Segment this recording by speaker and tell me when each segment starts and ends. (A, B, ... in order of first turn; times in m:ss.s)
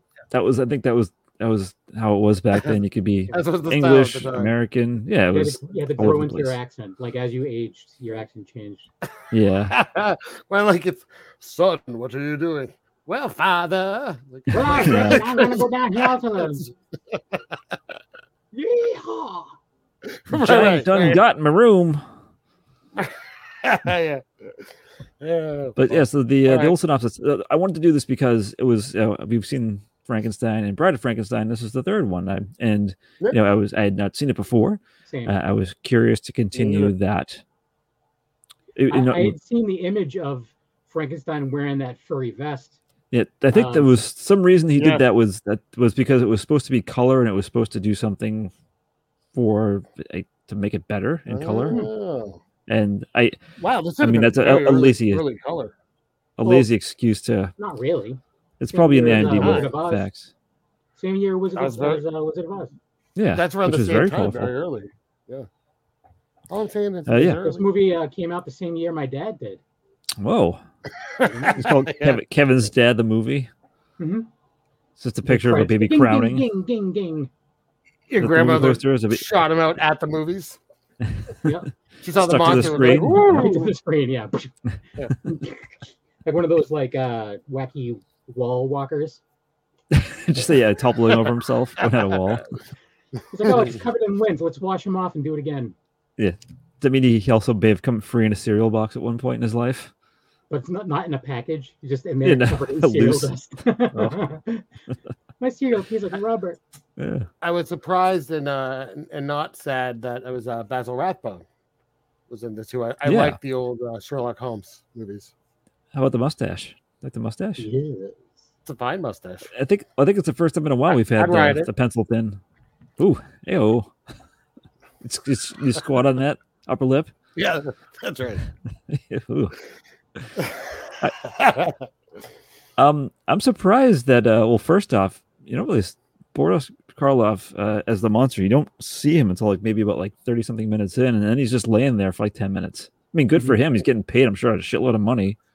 0:00.3-0:06.6 A
0:03.3-0:04.5 B
0:05.3-0:08.9 C
0:09.3-0:09.8 A
0:09.7-0:15.7 B
0:14.5-0:16.7 C
0:14.8-0:15.2 A
0:17.1-0:17.4 B
0:18.5-0:19.5 C
0:20.1-0:21.2 B
0:20.3-0:22.0 A
0:23.0-0:24.5 B
0:25.2-0:26.8 B
0:25.8-0:37.4 A
0:35.1-0:35.4 C
0:36.5-0:36.9 B
0:38.8-0:39.3 A
0:38.9-0:42.8 C
0:43.1-0:48.5 A
0:43.5-0:43.9 C
0:44.8-0:45.0 B
0:49.3-0:51.8 A
0:51.3-0:52.4 B
0:52.7-0:53.4 A
0:53.6-0:55.7 B
0:54.0-0:55.2 A
0:56.4-0:57.5 A
0:56.4-0:56.7 C
0:57.6-0:58.2 C
0:58.6-1:00.3 A
0:58.7-1:00.1 C
0:59.0-0:59.7 B
1:01.0-1:02.7 C
1:01.6-1:02.0 B
1:03.2-1:04.5 A
1:03.3-1:05.5 B
1:06.5-1:07.7 B
1:07.1-1:07.4 A
1:07.4-1:09.6 C
1:10.2-1:10.6 A
1:11.2-1:12.2 B
1:11.2-1:11.6 C
1:11.6-1:13.5 A
1:14.0-1:14.3 C
1:15.0-1:16.5 A
1:15.2-1:17.3 C
1:18.1-1:20.6 B
1:18.2-1:19.2 A
1:21.4-1:21.7 C
1:22.0-1:23.7 B
1:22.2-1:23.4 A
1:22.5-1:24.5 C
1:25.2-1:25.7 C
1:26.2-1:29.2 C
1:29.9-1:32.5 A
1:33.3-1:35.8 C
1:36.2-1:39.9 A
1:40.5-1:44.7 C
1:42.2-1:43.3 A
1:43.9-1:44.2 A
1:45.4-1:46.6 C
1:47.0-1:47.3 A
1:47.4-1:51.4 B
1:52.3-1:55.3 B
1:53.0-1:53.4 A
1:55.9-1:57.7 A
1:57.6-1:58.2 C
1:58.6-1:59.5 B
1:59.5-2:02.4 A
2:01.0-2:01.7 B
2:03.0-2:03.9 A
2:05.0-2:07.1 A
2:07.4-2:08.4 B
2:08.9-2:09.6 A
2:11.2-2:11.8 B
2:12.8-2:25.4 A
2:23.3-2:23.6 C